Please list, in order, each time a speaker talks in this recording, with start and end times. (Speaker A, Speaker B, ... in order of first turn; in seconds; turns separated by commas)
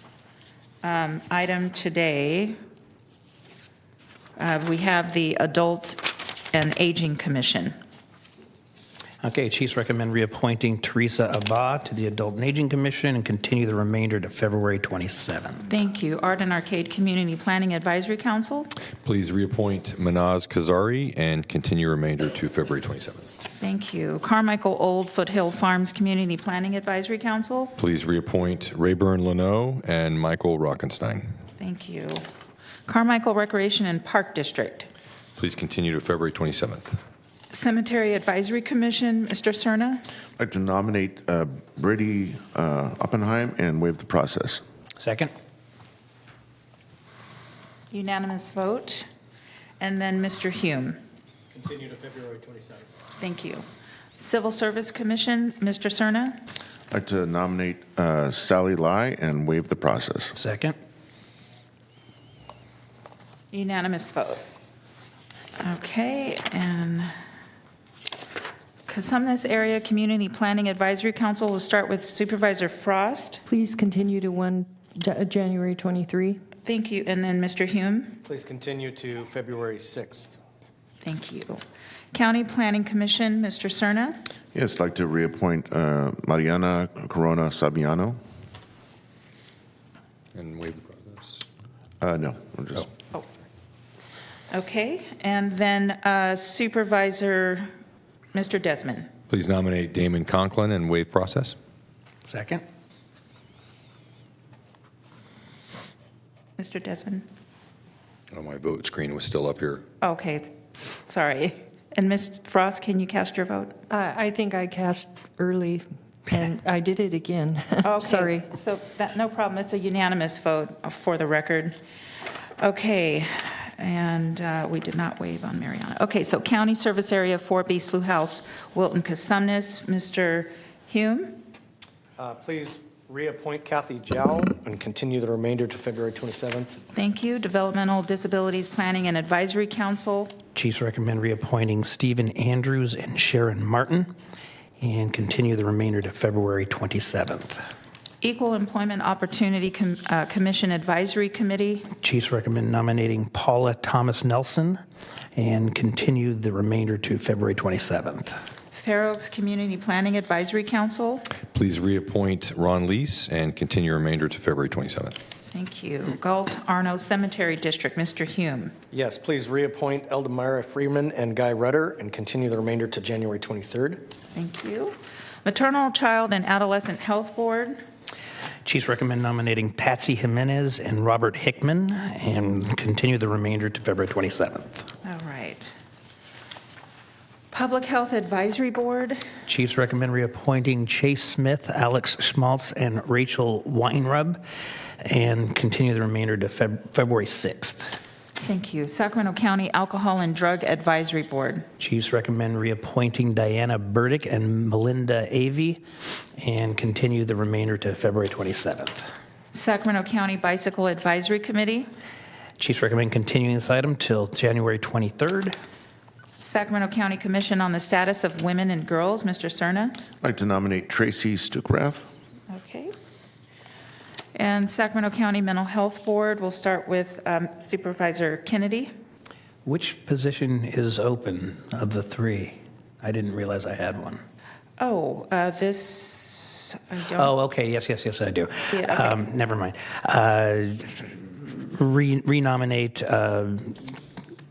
Speaker A: 0.8-2.6, Speaker A: 4.4-7.7, Speaker B: 9.2-15.6, Speaker A: 15.7-18.7, Speaker C: 19.0-23.3, Speaker A: 23.6-27.7, Speaker C: 27.8-31.3, Speaker A: 31.6-32.2, Speaker A: 32.9-34.9, Speaker C: 35.4-37.0, Speaker A: 37.5-40.0, Speaker D: 40.4-44.6, Speaker B: 45.0-45.3, Speaker A: 47.9-49.1, Speaker A: 49.8-51.0, Speaker E: 51.5-52.9, Speaker A: 53.2-53.6, Speaker A: 54.2-56.4, Speaker D: 56.9-60.3, Speaker B: 60.3-60.7, Speaker A: 63.5-64.4, Speaker A: 65.6-67.1, Speaker A: 68.9-73.4, Speaker F: 73.5-76.3, Speaker A: 76.6-78.2, Speaker E: 78.2-80.4, Speaker A: 81.0-81.6, Speaker A: 82.1-84.2, Speaker D: 84.5-88.2, Speaker C: 90.3-91.4, Speaker D: 92.0-92.9, Speaker A: 94.5-97.7, Speaker A: 98.3-99.1, Speaker C: 99.3-101.6, Speaker B: 102.2-102.6, Speaker A: 106.6-107.2, Speaker C: 108.3-109.8, Speaker A: 110.0-110.5, Speaker A: 111.0-113.8, Speaker F: 113.9-118.4, Speaker A: 117.8-121.8, Speaker A: 122.6-131.4, Speaker E: 132.2-136.8, Speaker A: 136.9-140.4, Speaker B: 140.5-144.1, Speaker B: 144.8-147.6, Speaker A: 148.2-151.9, Speaker B: 152.0-154.8, Speaker B: 155.3-158.3, Speaker A: 158.7-161.3, Speaker C: 161.5-165.2, Speaker A: 165.5-168.7, Speaker E: 168.9-174.1, Speaker A: 174.3-177.8, Speaker B: 178.6-184.9, Speaker A: 185.0-185.6, Speaker A: 187.5-189.2, Speaker B: 189.4-194.4, Speaker B: 195.0-197.8, Speaker A: 198.4-201.7, Speaker B: 201.8-205.8, Speaker B: 206.4-209.0, Speaker A: 209.5-211.9, Speaker B: 212.6-215.5, Speaker A: 216.4-220.0, Speaker D: 220.2-222.1, Speaker A: 222.5-222.9, Speaker A: 224.3-228.9, Speaker B: 229.6-234.2, Speaker A: 234.8-237.3, Speaker B: 237.2-243.9, Speaker A: 238.7-239.2